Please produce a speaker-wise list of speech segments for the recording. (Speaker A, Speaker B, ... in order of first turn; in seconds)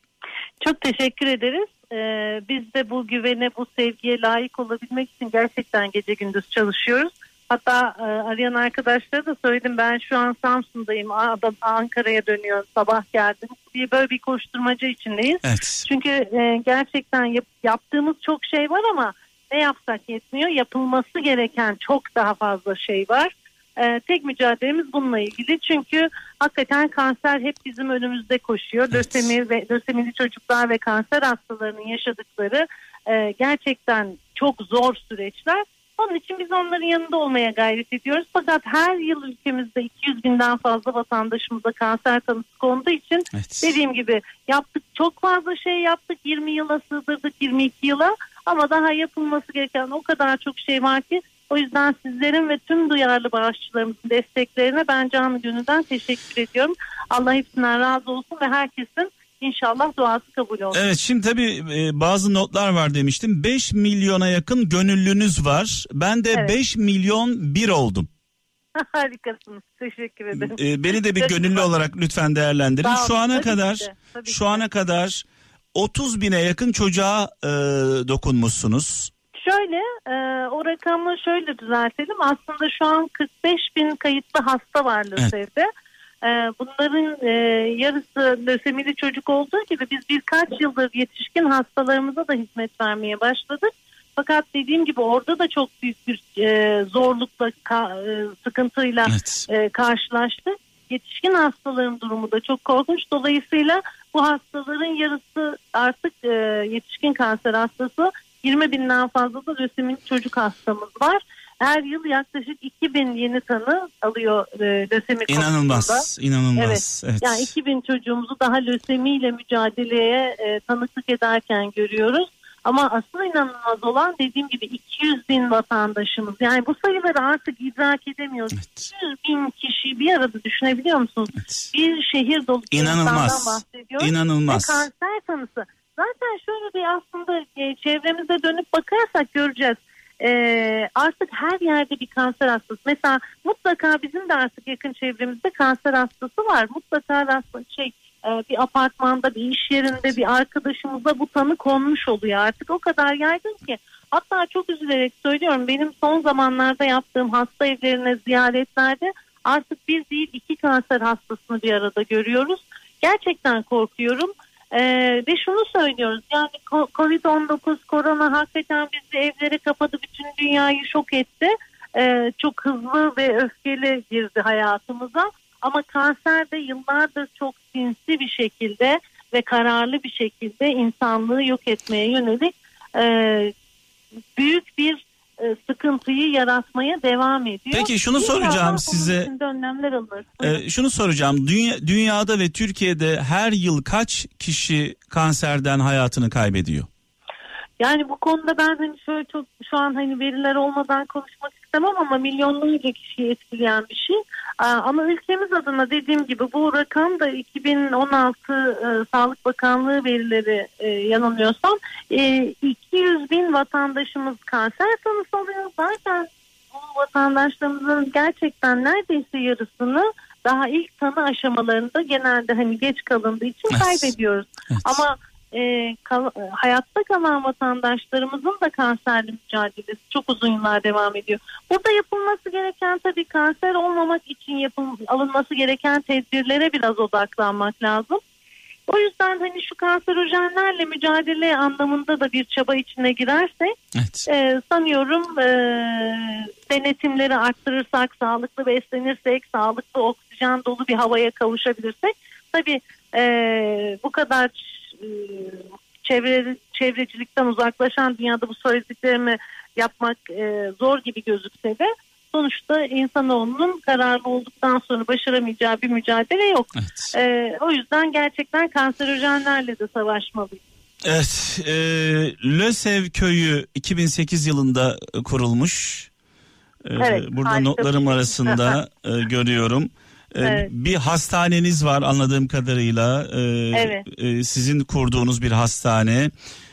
Speaker A: 0.6-60.8, 68.8-71.7, 72.8-74.6, 79.4-85.7, 86.2-183.5, 184.4-190.6, 197.8-238.2, 238.9-270.6, 277.0-278.8, 280.4-280.7, 283.7-284.1
Speaker B: 15.4-15.9, 43.3-43.7, 60.7-68.1, 70.3-79.1, 99.1-99.5, 115.3-117.5, 128.6-128.8, 131.4-131.7, 132.7-134.9, 187.7-189.3, 190.4-196.9, 223.7-224.1, 224.7-225.0, 243.9-244.2, 266.8-267.1, 271.0-276.1, 276.9-286.3